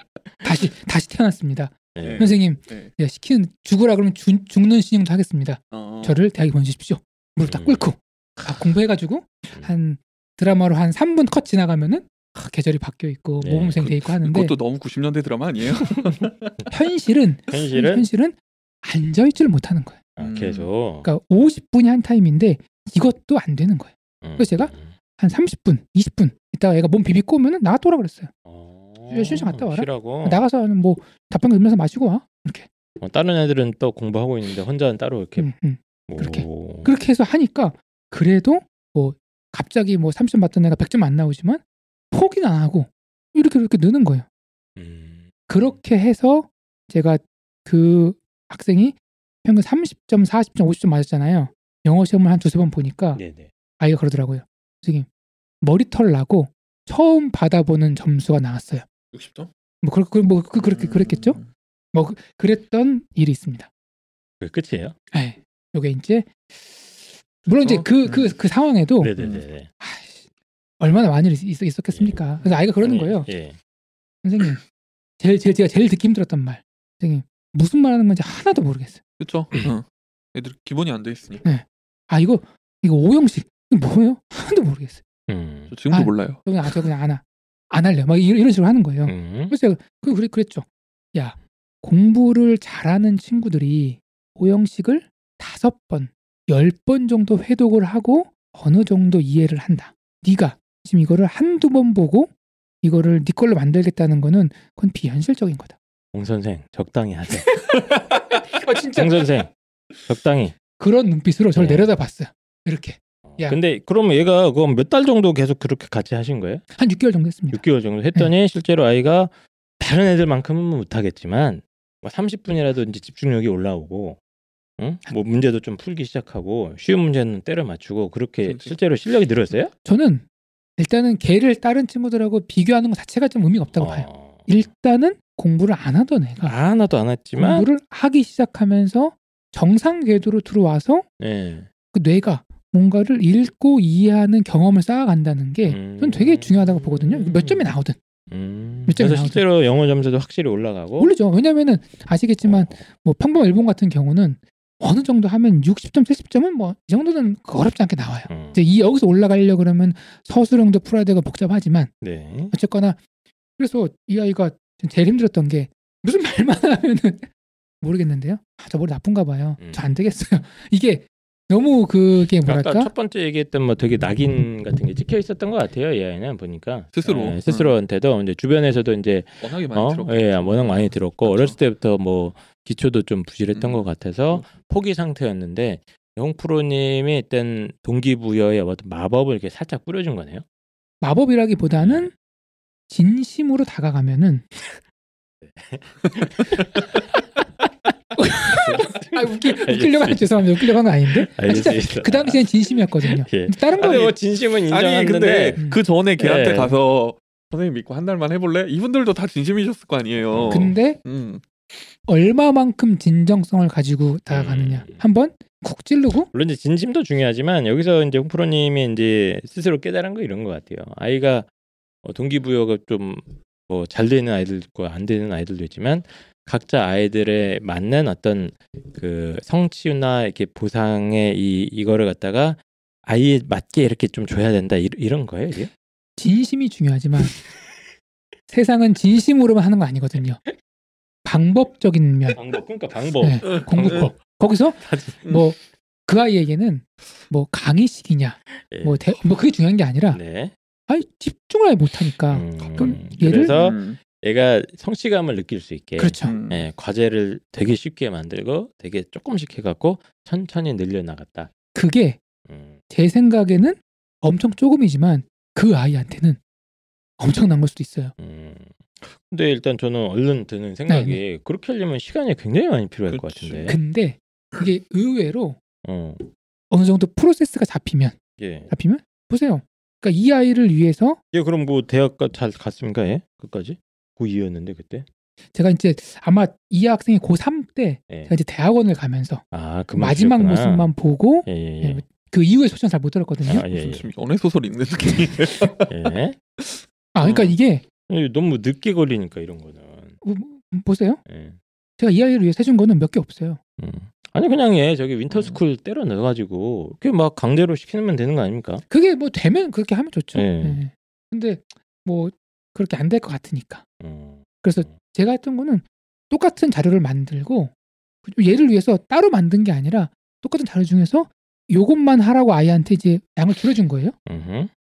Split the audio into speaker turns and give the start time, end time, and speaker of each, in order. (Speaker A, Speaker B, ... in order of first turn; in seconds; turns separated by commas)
Speaker A: 0.4-14.5, Speaker B: 1.9-2.4, Speaker C: 2.0-2.9, Speaker C: 5.7-6.2, Speaker B: 7.4-7.9, Speaker B: 13.4-13.9, Speaker C: 13.8-16.5, Speaker A: 16.7-20.0, Speaker B: 17.5-18.1, Speaker B: 20.1-21.1, Speaker C: 20.2-20.7, Speaker A: 21.0-28.3, Speaker B: 24.2-24.9, Speaker B: 28.4-30.4, Speaker A: 29.1-32.7, Speaker B: 33.0-35.5, Speaker A: 35.4-41.6, Speaker B: 36.1-36.9, Speaker A: 42.1-44.2, Speaker B: 44.8-45.8, Speaker A: 45.5-53.2, Speaker B: 53.1-53.5, Speaker A: 53.8-55.0, Speaker A: 55.6-58.9, Speaker C: 59.1-59.5, Speaker A: 59.8-61.4, Speaker C: 60.5-61.5, Speaker A: 61.9-63.7, Speaker B: 64.4-64.9, Speaker A: 65.1-66.9, Speaker A: 67.4-69.1, Speaker C: 67.6-68.3, Speaker B: 69.0-69.7, Speaker C: 69.2-69.4, Speaker A: 69.8-70.2, Speaker A: 70.8-73.3, Speaker B: 71.9-73.6, Speaker A: 74.2-74.6, Speaker A: 75.2-79.0, Speaker C: 79.2-81.4, Speaker A: 81.4-85.0, Speaker B: 85.3-85.7, Speaker C: 85.7-86.4, Speaker A: 85.9-102.3, Speaker B: 89.0-89.5, Speaker A: 102.8-105.7, Speaker B: 106.1-107.6, Speaker A: 107.5-107.8, Speaker A: 108.4-109.2, Speaker B: 108.9-109.5, Speaker B: 110.0-110.5, Speaker A: 110.8-113.6, Speaker B: 111.5-111.9, Speaker B: 113.2-116.6, Speaker A: 116.8-117.6, Speaker B: 117.5-124.2, Speaker B: 124.8-129.7, Speaker C: 128.4-128.8, Speaker A: 129.8-130.2, Speaker A: 130.8-136.5, Speaker B: 133.7-134.6, Speaker B: 136.4-137.7, Speaker A: 137.4-141.0, Speaker B: 141.2-141.7, Speaker A: 141.9-148.0, Speaker B: 145.7-147.7, Speaker B: 148.3-151.1, Speaker A: 148.9-149.4, Speaker A: 151.0-161.9, Speaker B: 152.4-152.8, Speaker B: 158.3-158.6, Speaker B: 162.0-162.5, Speaker A: 162.5-163.0, Speaker A: 163.6-167.3, Speaker A: 167.8-172.9, Speaker B: 169.6-169.9, Speaker B: 172.4-190.4, Speaker C: 176.9-177.7, Speaker C: 179.4-181.6, Speaker C: 183.5-184.4, Speaker A: 191.0-192.1, Speaker B: 191.8-192.1, Speaker A: 192.9-194.5, Speaker B: 195.4-196.8, Speaker A: 198.2-204.1, Speaker B: 198.5-200.5, Speaker B: 201.3-205.6, Speaker C: 203.8-211.4, Speaker B: 206.2-206.8, Speaker B: 210.2-210.7, Speaker A: 210.5-211.0, Speaker A: 212.1-216.3, Speaker B: 214.3-215.0, Speaker B: 216.3-221.5, Speaker B: 222.0-235.7, Speaker A: 236.2-237.3, Speaker A: 238.5-240.4, Speaker A: 241.2-242.4, Speaker B: 242.3-244.1, Speaker A: 243.2-250.2, Speaker C: 243.4-244.0, Speaker B: 244.8-245.4, Speaker B: 248.7-249.2, Speaker B: 250.1-250.5, Speaker A: 250.9-253.5, Speaker B: 252.3-261.5, Speaker C: 252.6-254.0, Speaker A: 256.0-256.3, Speaker C: 256.2-256.7, Speaker A: 261.7-262.2, Speaker B: 262.4-262.8, Speaker A: 262.9-266.4, Speaker A: 267.2-268.1, Speaker B: 268.2-273.8, Speaker A: 270.9-271.2, Speaker C: 273.1-273.8, Speaker A: 273.7-275.6, Speaker B: 275.8-276.2, Speaker A: 276.7-278.1, Speaker B: 278.4-278.7, Speaker A: 278.7-281.2, Speaker B: 281.3-285.1, Speaker A: 285.5-289.4, Speaker B: 289.5-290.9, Speaker A: 289.9-293.7, Speaker B: 291.4-292.0, Speaker B: 293.4-294.1, Speaker C: 293.7-295.9, Speaker B: 295.9-296.4, Speaker C: 296.6-297.5, Speaker A: 297.1-297.8, Speaker B: 298.1-300.2, Speaker A: 300.2-301.2, Speaker B: 301.2-301.6, Speaker A: 302.0-303.6, Speaker B: 303.8-308.8, Speaker C: 305.3-305.6, Speaker A: 308.9-313.8, Speaker B: 310.3-310.8, Speaker B: 314.0-314.9, Speaker A: 314.6-317.7, Speaker A: 318.2-324.1, Speaker B: 324.2-324.7